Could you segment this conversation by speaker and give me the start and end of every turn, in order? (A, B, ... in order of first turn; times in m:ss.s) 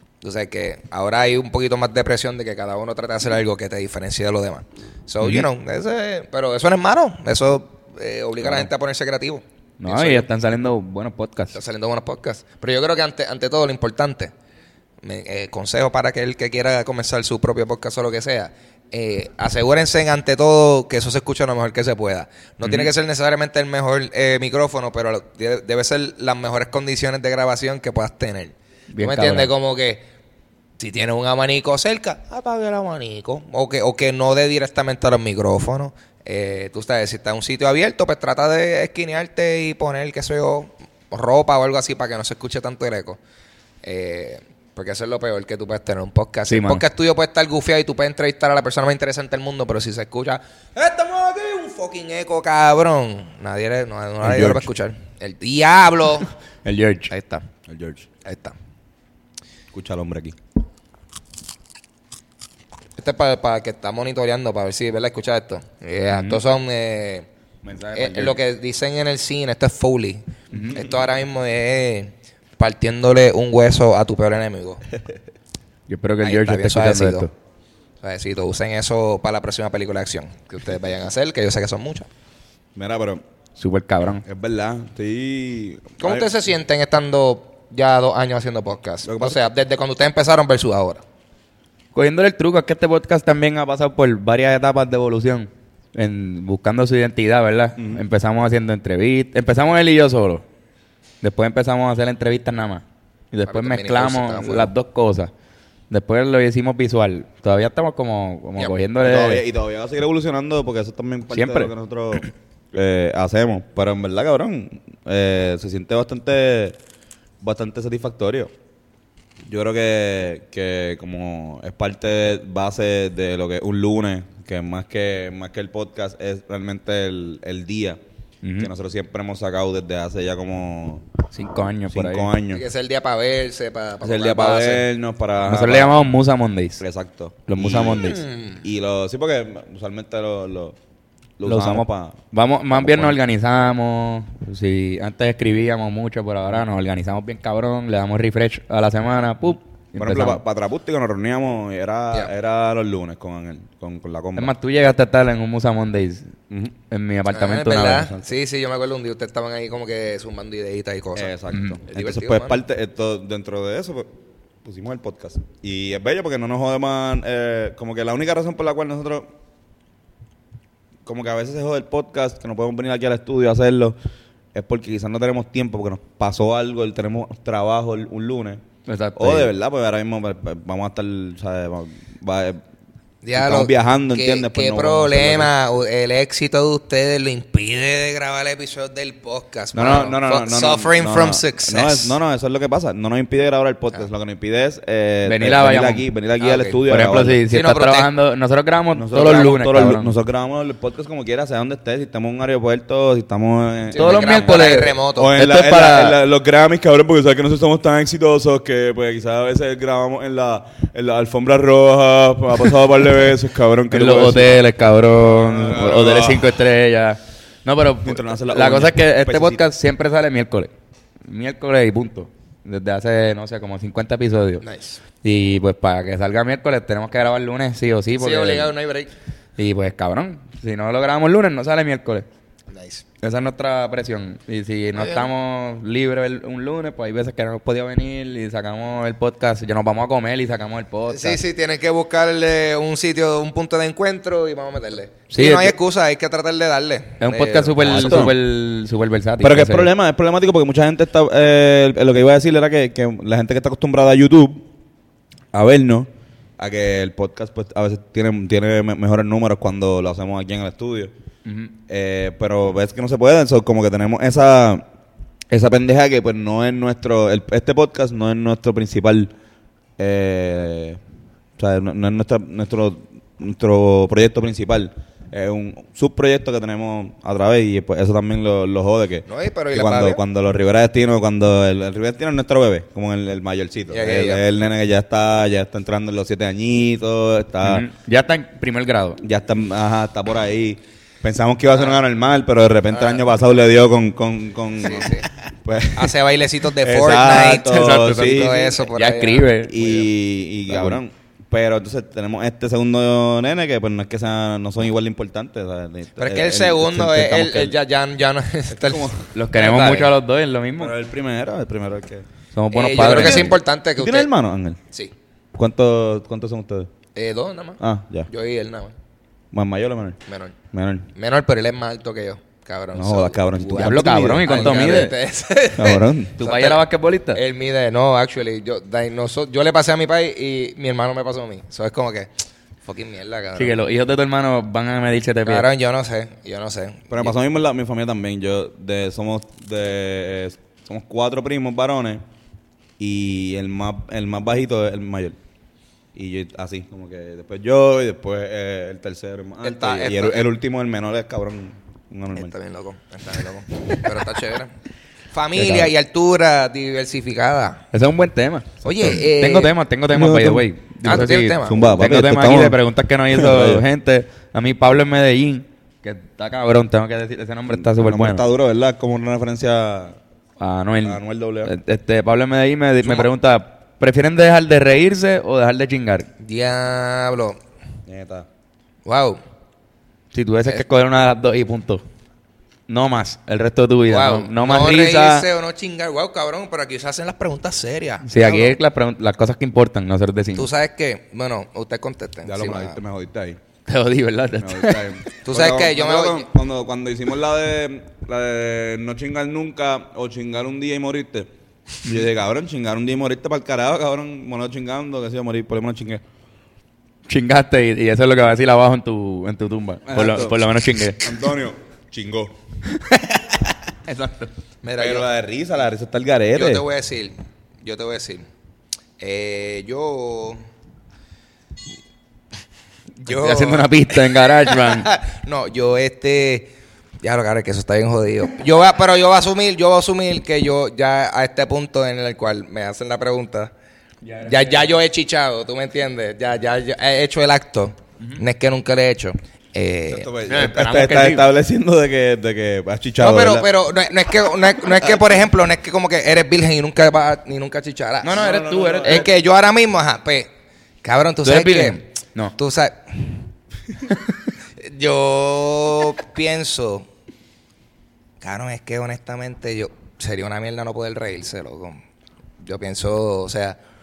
0:00.2-0:10.3 A
0:09.8-0:11.6 B
0:11.5-0:14.3 A
0:15.0-0:30.0 A
0:22.6-0:22.9 B
0:28.9-0:29.5 B
0:30.8-0:43.2 A
0:43.8-0:56.3 A
0:46.5-0:46.8 B
0:54.2-0:54.6 B
0:56.6-0:57.1 B
0:57.1-0:57.5 A
0:57.7-0:58.1 C
0:58.2-0:58.6 A
0:59.7-1:00.4 C
1:03.0-1:07.3 A
1:06.1-1:06.4 B
1:07.6-1:08.4 C
1:07.9-1:14.8 A
1:10.5-1:10.8 B
1:15.9-1:17.3 B
1:16.2-1:17.3 A
1:18.0-1:22.1 A
1:22.8-1:23.2 C
1:23.6-1:24.2 B
1:24.2-1:26.3 C
1:26.0-1:31.0 A
1:29.0-1:29.4 C
1:31.9-1:40.4 B
1:37.8-1:38.0 C
1:41.2-1:45.3 B
1:43.5-1:44.7 A
1:45.9-1:49.4 B
1:49.0-1:56.8 C
1:51.3-1:51.7 B
1:57.4-1:58.5 C
1:59.5-2:08.0 C
2:08.4-2:08.7 B
2:08.6-2:11.1 C
2:11.3-2:12.3 B
2:11.9-2:12.6 C
2:12.5-2:14.9 A
2:14.0-2:16.0 C
2:15.4-2:16.8 B
2:16.8-2:20.8 C
2:17.5-2:18.2 B
2:18.1-2:18.6 A
2:21.4-2:22.2 C
2:21.5-2:30.4 B
2:22.7-2:23.2 C
2:30.0-2:34.5 C
2:34.4-2:36.3 B
2:36.9-2:38.1 B
2:37.3-2:41.3 A
2:38.0-2:38.3 C
2:41.2-2:44.1 C
2:41.5-2:41.8 B
2:41.9-2:42.6 A
2:44.6-2:49.3 C
2:51.0-2:54.0 C
2:54.5-2:58.6 C
2:58.9-2:59.5 B
2:59.2-3:02.6 C
3:03.2-3:12.2 A
3:03.4-3:05.5 C
3:09.7-3:17.4 C
3:15.2-3:16.1 B
3:16.4-3:16.8 A
3:16.9-3:20.1 B
3:17.5-3:18.1 A
3:18.9-3:34.6 C
3:23.9-3:25.3 A
3:24.0-3:26.2 B
3:33.9-3:40.7 B
3:35.2-3:36.6 C
3:38.0-3:39.6 C
3:41.2-3:44.6 B
3:44.6-3:45.0 A
3:45.2-3:48.7 B
3:48.2-3:49.1 A
3:49.6-3:52.3 B
3:52.7-3:53.0 A
3:53.2-4:01.4 B
3:55.0-3:55.3 A
4:01.1-4:08.3 A
4:05.3-4:05.8 B
4:07.2-4:09.9 B
4:07.8-4:08.4 C
4:09.4-4:14.6 C
4:15.5-4:21.1 C
4:21.4-4:21.7 B
4:21.9-4:24.9 C
4:25.5-4:29.3 C
4:30.0-4:31.0 C
4:31.6-4:47.8 C
4:39.3-4:40.2 A
4:43.9-4:44.4 A
4:47.6-4:49.2 B
4:49.2-4:56.2 C
4:52.9-4:53.2 A
4:54.8-4:55.3 A
4:55.9-4:59.5 A
4:56.8-4:58.7 C
4:57.7-4:59.8 B
4:59.7-5:07.8 C
5:00.7-5:01.0 B
5:06.2-5:10.1 A
5:08.7-5:09.3 C
5:09.3-5:11.0 B
5:10.8-5:12.3 C
5:12.5-5:13.6 B
5:12.7-5:14.3 A
5:13.0-5:14.8 C
5:15.6-5:16.9 C
5:17.2-5:18.9 A
5:17.8-5:18.3 C
5:19.5-5:20.2 C
5:20.3-5:20.6 A
5:20.7-5:21.1 C
5:21.2-5:26.8 A
5:22.9-5:25.1 C
5:23.8-5:25.1 B
5:25.8-5:26.4 C
5:26.4-5:27.4 B
5:27.3-5:32.3 A
5:32.8-5:33.8 A
5:33.6-5:35.7 B
5:35.4-5:37.3 A
5:37.1-5:42.2 C
5:43.0-5:45.4 C
5:46.2-5:52.5 C
5:49.6-5:50.5 A
5:52.4-5:54.7 A
5:55.3-5:57.8 A
5:57.9-6:08.4 B
5:58.8-5:59.7 A
6:00.1-6:00.7 C
6:01.0-6:01.9 A
6:01.6-6:02.8 C
6:03.3-6:03.8 C
6:07.7-6:10.2 C
6:10.6-6:16.3 B
6:11.0-6:11.8 C
6:16.4-6:17.6 A
6:18.1-6:18.5 C
6:19.0-6:19.4 A
6:20.3-6:22.0 B
6:22.9-6:25.5 B
6:24.1-6:28.8 A
6:28.2-6:30.7 B
6:30.6-6:33.0 A
6:32.4-6:33.6 C
6:33.9-6:35.2 B
6:34.6-6:41.5 C
6:35.4-6:36.5 A
6:42.0-6:46.2 C
6:47.3-6:51.3 B
6:50.1-6:52.6 C
6:53.0-6:54.5 B
6:54.8-6:55.3 A
6:55.0-6:56.8 C
6:56.6-6:58.5 A
6:59.2-7:00.6 A
7:03.2-7:13.7 A
7:03.3-7:05.1 B
7:14.2-7:14.9 B
7:14.4-7:20.3 A
7:20.1-7:23.7 C
7:20.5-7:21.4 B
7:23.2-7:28.5 A
7:28.2-7:29.3 B
7:28.3-7:29.3 C
7:29.0-7:30.5 A
7:31.0-7:33.4 A
7:31.4-7:32.5 B
7:34.8-7:37.1 A
7:38.4-7:42.0 A
7:42.6-7:43.8 A